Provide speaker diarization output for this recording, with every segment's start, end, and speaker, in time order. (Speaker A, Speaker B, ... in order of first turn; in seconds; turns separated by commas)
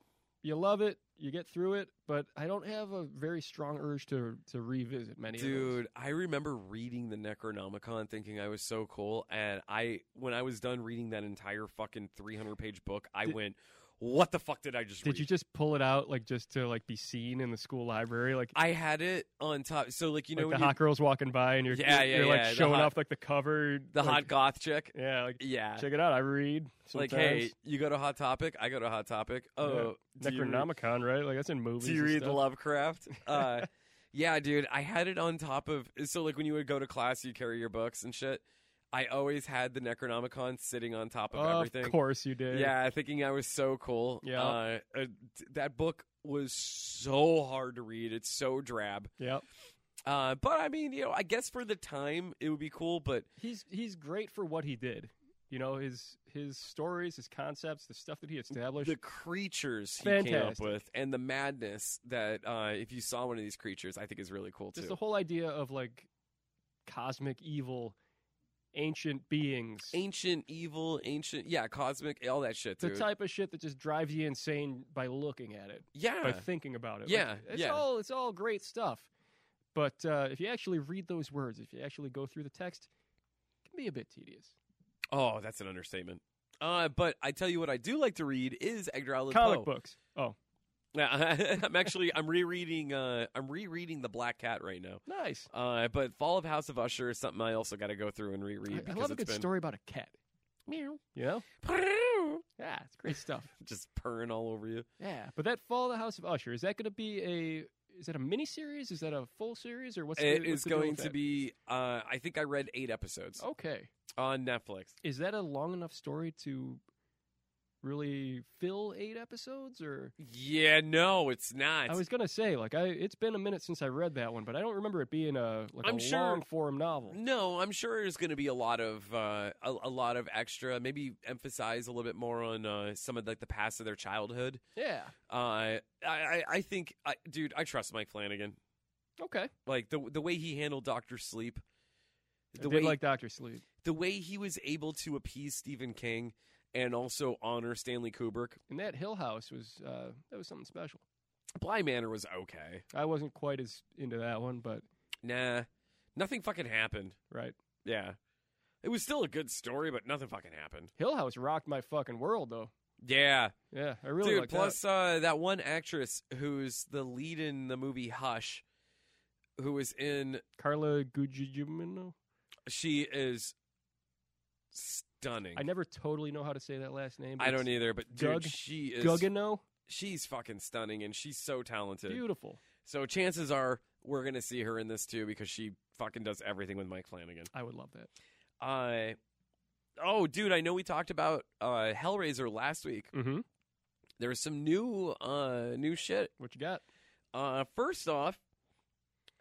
Speaker A: 0.4-5.8, Speaker B: 5.3-15.3, Speaker A: 15.0-18.6, Speaker B: 18.5-20.8, Speaker A: 20.4-24.3, Speaker B: 21.7-22.9, Speaker B: 23.9-25.9, Speaker A: 24.9-27.5, Speaker B: 26.9-30.7, Speaker A: 29.6-32.4, Speaker B: 31.8-42.0, Speaker A: 33.3-33.6, Speaker A: 41.3-42.7, Speaker B: 42.5-49.1, Speaker A: 44.2-44.6, Speaker A: 49.2-49.4, Speaker B: 50.1-53.3, Speaker A: 53.4-59.0, Speaker B: 58.8-65.0, Speaker A: 60.0-60.8, Speaker A: 64.8-66.1, Speaker A: 66.9-68.0, Speaker A: 68.7-70.0, Speaker B: 69.9-73.1, Speaker A: 72.8-79.1, Speaker B: 76.0-76.5, Speaker B: 77.1-77.8, Speaker A: 79.7-82.9, Speaker A: 83.7-84.5, Speaker B: 85.1-89.7, Speaker A: 89.3-90.4, Speaker B: 90.9-99.5, Speaker A: 95.1-95.5, Speaker A: 98.7-100.2, Speaker B: 100.7-101.0, Speaker A: 101.2-101.5, Speaker B: 101.6-102.4, Speaker A: 102.6-103.5, Speaker B: 103.6-104.9, Speaker A: 105.0-111.2, Speaker B: 110.2-113.4, Speaker A: 113.4-113.9, Speaker B: 114.1-115.0, Speaker A: 115.0-116.8, Speaker A: 117.8-120.1, Speaker B: 120.2-122.0, Speaker A: 121.9-127.2, Speaker B: 125.8-126.4, Speaker B: 127.1-134.6, Speaker A: 134.8-135.1, Speaker B: 135.3-138.6, Speaker A: 139.2-139.5, Speaker B: 139.7-141.6, Speaker B: 142.6-143.0, Speaker A: 142.6-143.6, Speaker B: 143.8-148.6, Speaker A: 148.7-151.0, Speaker B: 151.6-152.8, Speaker A: 152.9-154.8, Speaker B: 155.2-157.2, Speaker A: 157.3-157.6, Speaker B: 157.8-158.2, Speaker B: 158.8-160.9, Speaker A: 161.0-162.7, Speaker B: 163.0-163.6, Speaker A: 163.7-164.8, Speaker B: 164.2-168.6, Speaker B: 169.6-170.4, Speaker A: 170.6-172.2, Speaker B: 172.7-173.6, Speaker B: 174.7-175.7, Speaker A: 175.6-179.6, Speaker B: 177.4-179.3, Speaker B: 179.9-182.2, Speaker A: 182.1-182.6, Speaker B: 182.8-187.5, Speaker A: 187.5-188.1, Speaker B: 188.6-189.2, Speaker B: 190.0-193.1, Speaker A: 193.1-193.4, Speaker B: 194.2-196.3, Speaker A: 196.4-196.8, Speaker B: 197.3-198.4